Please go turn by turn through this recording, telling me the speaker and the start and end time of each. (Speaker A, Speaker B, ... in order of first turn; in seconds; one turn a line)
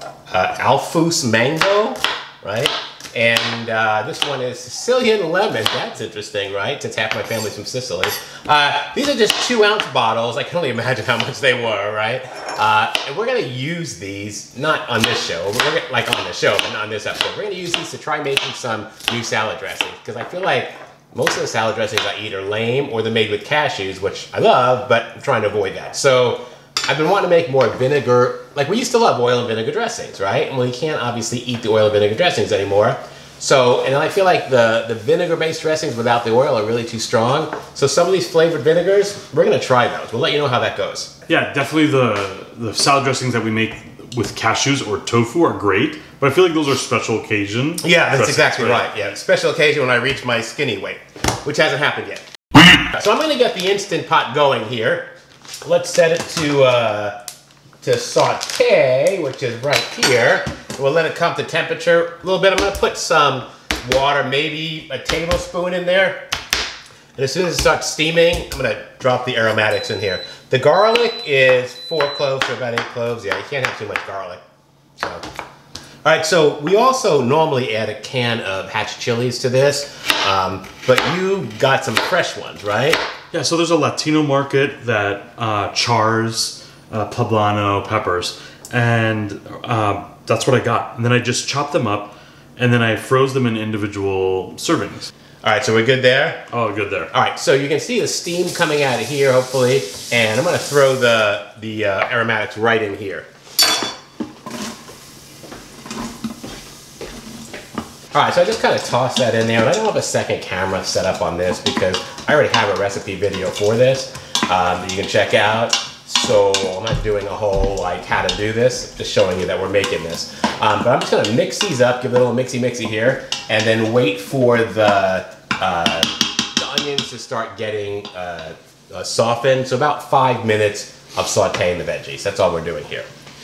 Speaker A: 0.3-41.1
Speaker B: 41.3-48.9
Speaker A: 47.8-52.2
Speaker A: 52.8-55.1
Speaker A: 55.6-57.2
Speaker A: 57.8-66.2
Speaker A: 67.2-74.4
Speaker A: 75.0-75.2
Speaker A: 76.0-83.0
Speaker B: 83.3-95.1
Speaker A: 95.4-96.5
Speaker B: 96.5-97.1
Speaker A: 97.1-103.3
Speaker A: 108.1-133.1